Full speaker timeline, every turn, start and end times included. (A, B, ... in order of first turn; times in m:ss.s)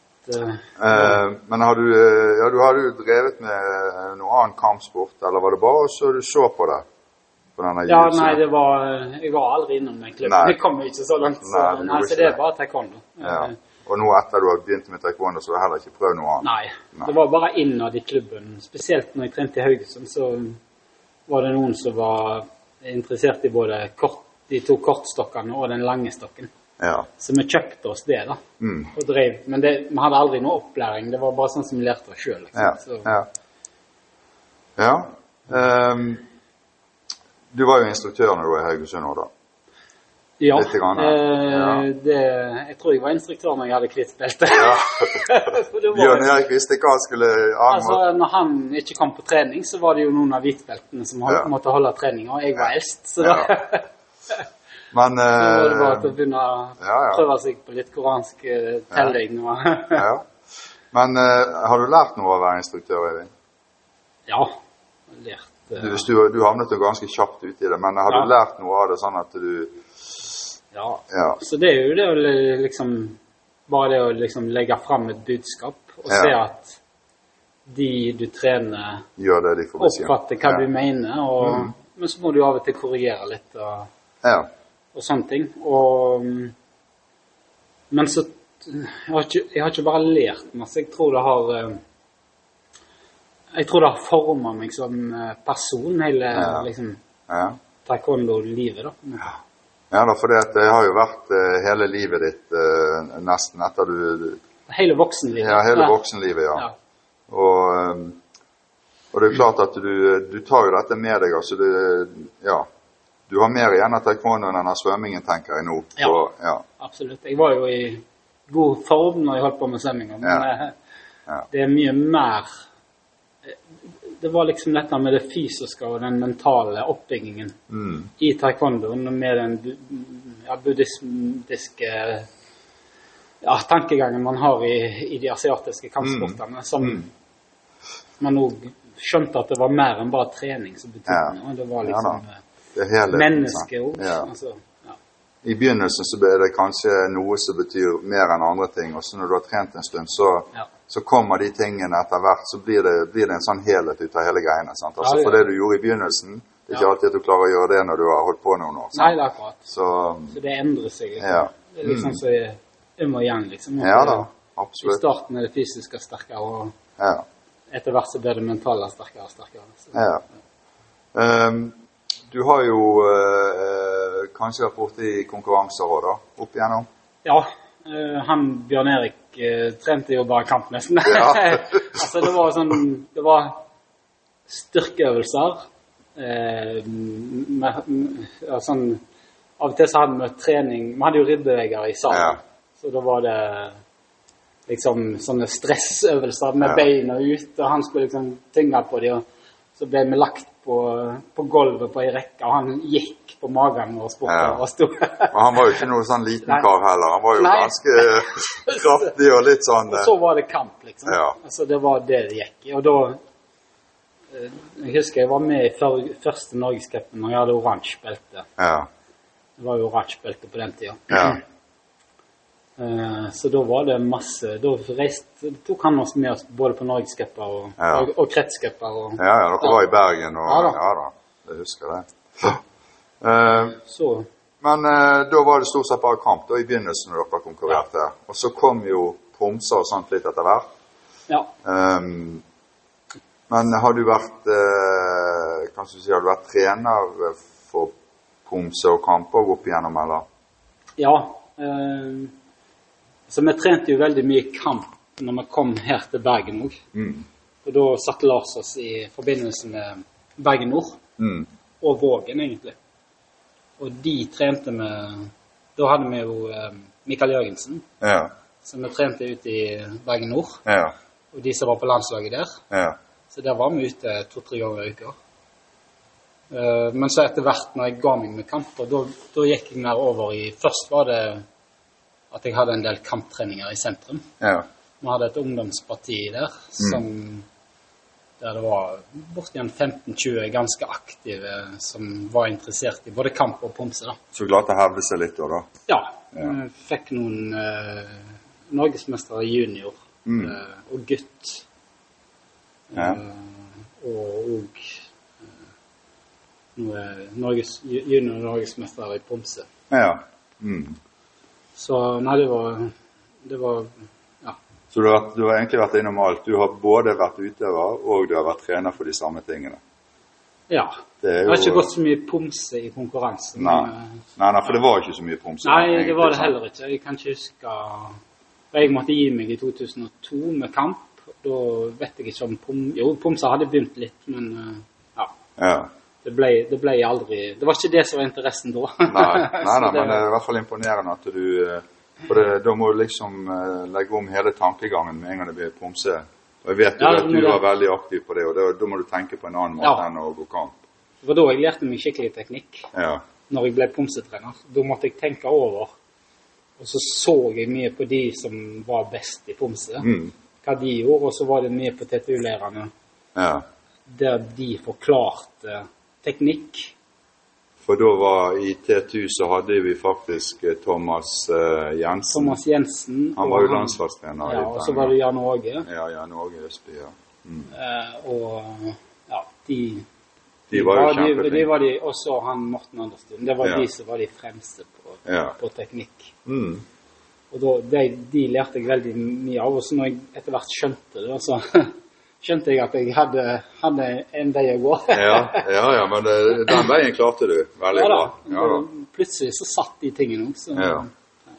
0:00.3-0:01.2 A
0:00.8-0:06.8 B
0:07.6-0:08.4 B
0:07.9-0:13.6 A
0:10.2-0:10.6 B
0:11.4-0:12.4 B
0:13.2-0:17.2 B
0:16.4-0:20.6 A
0:21.3-0:26.5 A
0:26.8-0:27.1 B
0:27.2-0:28.4 A
0:28.6-0:28.9 B
0:28.9-0:33.1 A
0:32.6-0:33.3 B
0:34.8-0:36.2 B
0:37.5-0:39.3 B
0:40.4-0:46.5 A
0:40.5-0:41.9 B
0:44.5-0:48.0 B
0:47.7-0:54.4 A
0:51.3-0:51.5 B
0:53.2-0:53.5 B
0:54.9-0:56.2 B
0:55.4-1:00.1 A
0:56.8-0:57.2 B
0:59.9-1:00.3 B
1:00.9-1:03.3 B
1:04.3-1:04.6 A
1:05.1-1:06.1 A
1:05.8-1:09.8 B
1:10.7-1:16.8 A
1:11.1-1:11.4 B
1:16.1-1:16.3 B
1:17.7-1:19.1 A
1:19.2-1:20.6 B
1:19.8-1:23.9 A
1:21.4-1:21.7 B
1:24.2-1:24.5 B
1:25.0-1:26.6 A
1:27.9-1:31.8 A
1:33.6-1:37.0 A
1:36.3-1:36.7 B
1:37.3-1:37.6 B
1:37.8-1:39.4 A
1:39.9-1:44.4 B
1:44.7-1:46.0 A
1:45.4-1:46.7 B
1:47.3-1:48.2 B
1:49.1-1:52.7 B
1:53.3-1:56.6 B
1:56.8-2:00.8 A
2:00.2-2:00.5 B
2:01.5-2:02.6 A
2:03.5-2:07.6 A
2:07.7-2:08.1 B
2:08.2-2:12.3 A
2:13.4-2:17.1 A
2:16.0-2:17.0 B
2:18.2-2:22.4 A
2:21.1-2:22.2 B
2:22.8-2:24.3 B
2:23.1-2:25.0 A
2:25.4-2:39.2 B
2:35.0-2:35.5 A
2:38.9-2:39.6 A
2:39.7-2:40.4 B
2:40.3-2:44.3 A
2:41.2-2:42.2 B
2:43.8-2:45.0 B
2:44.8-2:46.8 A
2:47.0-2:47.3 B
2:47.7-2:50.0 A
2:49.9-2:50.2 B
2:51.1-2:51.8 B
2:52.3-2:56.9 B
2:57.2-3:03.6 A
3:01.1-3:02.0 B
3:04.5-3:05.6 A
3:06.2-3:09.0 A
3:09.6-3:13.8 A
3:12.1-3:12.4 B
3:14.7-3:19.2 A
3:19.8-3:25.6 A
3:24.3-3:24.6 B
3:25.3-3:30.1 B
3:27.3-3:29.2 A
3:29.9-3:33.2 A
3:31.1-3:31.4 B
3:34.3-3:38.5 A
3:38.6-3:38.9 B
3:39.6-3:41.4 A
3:41.1-3:41.4 B
3:42.8-3:49.8 A
3:47.8-3:48.1 B
3:49.2-3:52.6 B
3:50.5-3:50.8 A
3:53.2-3:53.8 B
3:53.8-3:54.3 A
3:54.6-4:00.7 B
4:01.6-4:02.4 B
4:03.5-4:07.9 B
4:08.5-4:10.2 B
4:11.0-4:12.4 A
4:13.3-4:16.8 A
4:16.9-4:17.3 B
4:17.6-4:21.0 A
4:21.2-4:21.5 B
4:21.8-4:22.8 A
4:23.8-4:27.8 A
4:28.0-4:28.3 B
4:28.6-4:30.6 A
4:30.7-4:31.0 B
4:31.3-4:32.6 A
4:32.7-4:33.0 B
4:33.3-4:35.2 A
4:36.5-4:41.4 A
4:42.3-4:44.3 A
4:44.4-4:44.7 B
4:45.0-4:47.5 A
4:48.4-4:54.2 A
4:54.3-4:55.7 B
4:55.9-5:01.6 A
5:00.2-5:00.6 B
5:02.9-5:05.0 A
5:03.0-5:03.2 B
5:06.8-5:09.7 A
5:09.9-5:11.0 B
5:11.8-5:14.6 A
5:14.9-5:19.8 B
5:20.7-5:24.2 A
5:21.2-5:21.9 B
5:23.6-5:26.5 B
5:25.6-5:28.2 A
5:28.7-5:35.3 A
5:35.6-5:35.9 B
5:36.2-5:40.2 A
5:39.1-5:50.8 B
5:47.0-5:47.6 A
5:51.2-5:52.9 A
5:52.9-5:53.2 B
5:53.5-5:55.9 A
5:56.8-6:00.1 A
6:00.0-6:00.3 B
6:00.6-6:02.9 A
6:03.4-6:03.6 B
6:04.1-6:07.0 A
6:07.8-6:12.6 B
6:12.3-6:15.9 A
6:13.4-6:15.1 B
6:15.8-6:17.7 B
6:17.7-6:20.1 A
6:20.7-6:21.7 B
6:20.7-6:26.3 A
6:25.3-6:25.6 B
6:26.5-6:26.8 B
6:27.5-6:35.7 A
6:35.1-6:38.9 B
6:37.9-6:41.1 A
6:40.8-6:41.1 B